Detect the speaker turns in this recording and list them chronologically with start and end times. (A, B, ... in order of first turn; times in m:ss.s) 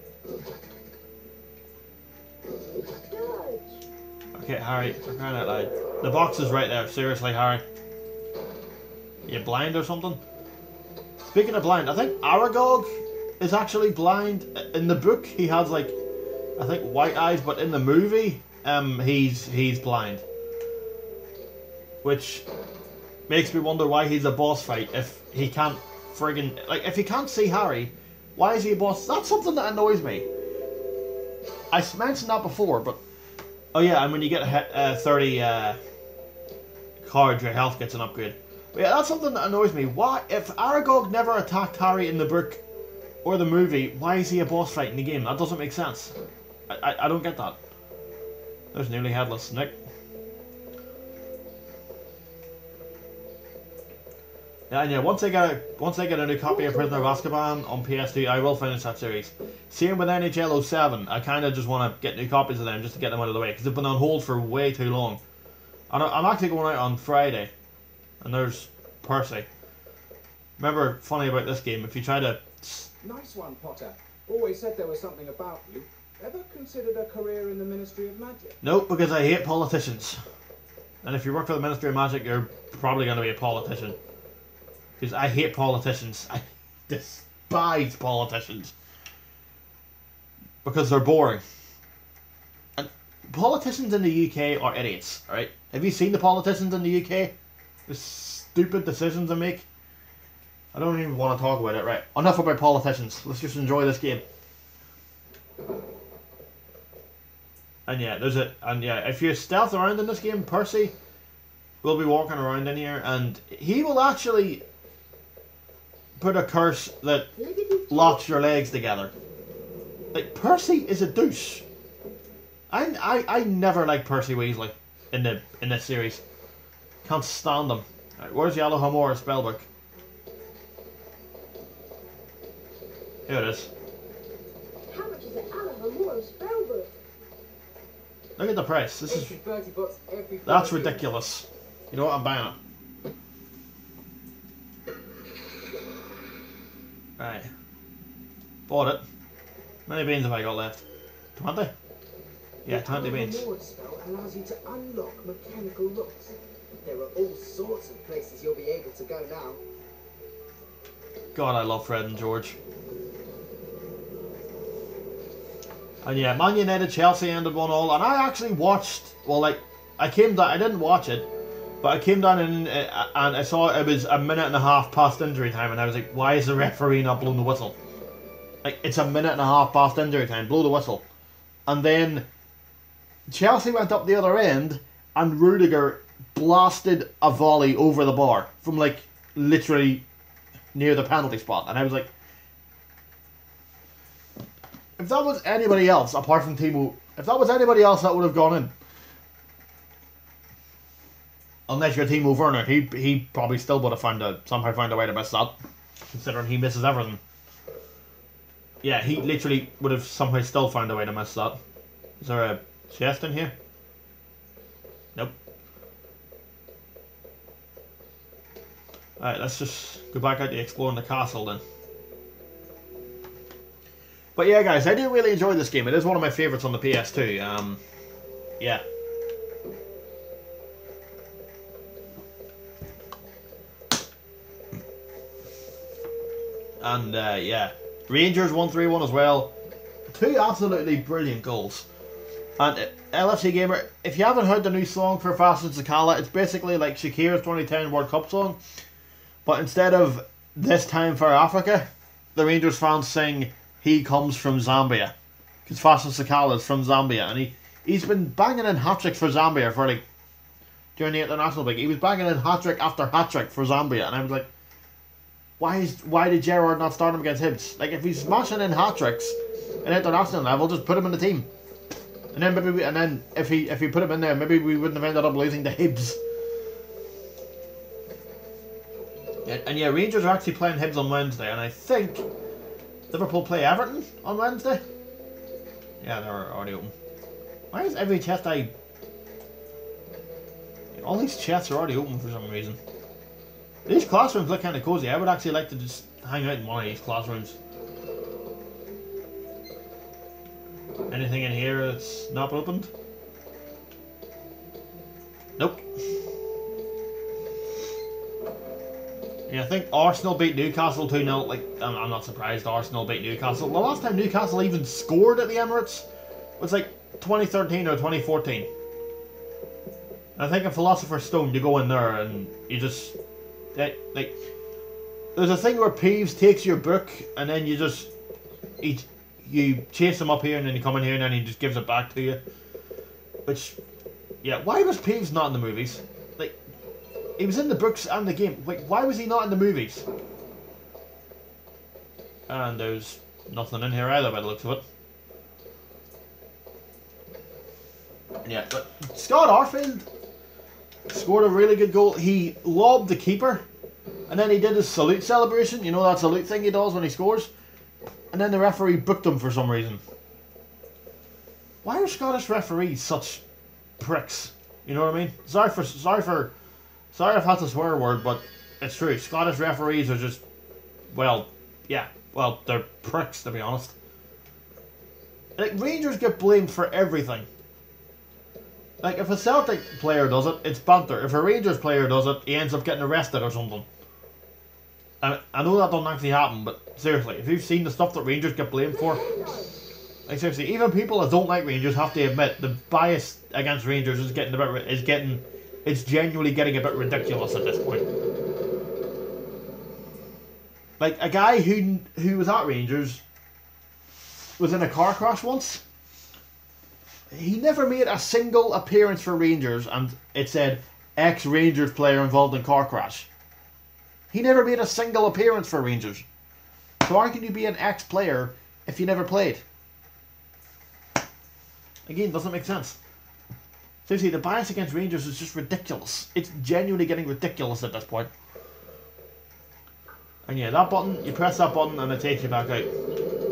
0:03.0-0:03.8 A
0:04.3-0:07.6 B
0:09.3-0:10.2 B
0:11.2-0:16.0 B
0:16.6-0:20.2 B
0:22.0-0:22.5 B
0:23.3-0:30.3 B
0:31.7-0:33.0 B
0:33.7-0:35.8 B
0:37.0-0:42.6 B
0:43.2-0:46.1 B
0:46.7-0:47.6 B
0:48.7-0:49.8 B
0:54.7-1:05.2 B
0:56.5-0:57.2 A
1:05.9-1:07.5 B
1:08.2-1:09.5 B
1:10.6-1:12.9 B
1:13.0-1:18.6 C
1:18.6-1:20.2 B
1:21.0-1:24.0 B
1:25.0-1:28.7 B
1:30.6-1:31.4 B
1:32.8-1:37.3 B
1:37.9-1:39.7 B
1:40.7-1:44.2 B
1:47.9-1:50.9 B
1:51.8-1:54.6 B
1:56.2-1:57.3 B
1:57.4-1:58.2 A
1:57.9-1:59.1 B
2:00.1-2:01.6 B
2:02.7-2:06.2 B
2:07.0-2:09.7 B
2:13.3-2:13.7 B
2:14.9-2:16.9 A
2:18.4-2:19.4 B
2:19.1-2:21.1 C
2:20.4-2:22.6 B
2:27.2-2:27.5 B
2:28.7-2:29.0 B
2:29.9-2:30.8 B
2:31.4-2:31.7 B
2:32.6-2:39.6 C
2:32.6-2:33.4 B
2:41.4-2:42.6 B
2:46.0-2:51.3 B
2:51.8-2:57.8 B
2:58.6-3:01.0 B
3:01.7-3:02.3 B
3:03.3-3:10.0 B
3:10.7-3:12.1 B
3:15.0-3:18.7 B
3:21.7-3:25.6 B
3:26.1-3:27.2 B
3:28.8-3:31.6 B
3:32.2-3:33.6 B
3:39.2-3:41.6 B
3:44.4-3:47.8 B
3:56.8-3:59.5 B
4:00.1-4:01.9 B
4:02.6-4:08.6 B
4:09.4-4:15.1 B
4:15.6-4:20.0 B
4:21.0-4:24.5 B
4:25.6-4:31.5 B
4:32.3-4:36.2 B
4:39.4-4:42.3 B
4:43.1-4:44.8 B
4:46.0-4:46.9 B
4:47.7-4:48.7 B
4:50.9-4:52.8 B
4:53.9-4:57.6 B
5:01.1-5:02.9 B
5:05.6-5:05.8 B
5:09.5-5:16.1 B
5:16.6-5:18.7 B
5:20.4-5:23.2 B
5:23.7-5:24.4 B
5:25.4-5:28.1 B
5:28.8-5:32.4 B
5:33.5-5:33.8 B
5:34.4-5:36.6 B
5:37.4-5:40.1 B
5:42.5-5:44.8 B
5:48.4-5:50.1 B
5:51.1-5:53.6 B
5:54.3-5:57.5 B
5:58.3-6:00.0 B
6:01.8-6:03.4 B
6:04.0-6:06.5 B
6:07.1-6:10.4 B
6:11.1-6:14.0 B
6:15.6-6:17.5 B
6:19.0-6:23.9 B
6:25.2-6:29.2 B
6:28.9-6:29.8 A
6:30.3-6:38.0 B
6:41.0-6:43.2 B
6:44.6-6:45.8 B
6:47.3-6:53.3 B
6:54.3-6:56.2 B
6:57.0-6:59.6 B
7:02.1-7:03.0 B
7:04.1-7:08.3 B
7:10.5-7:12.9 B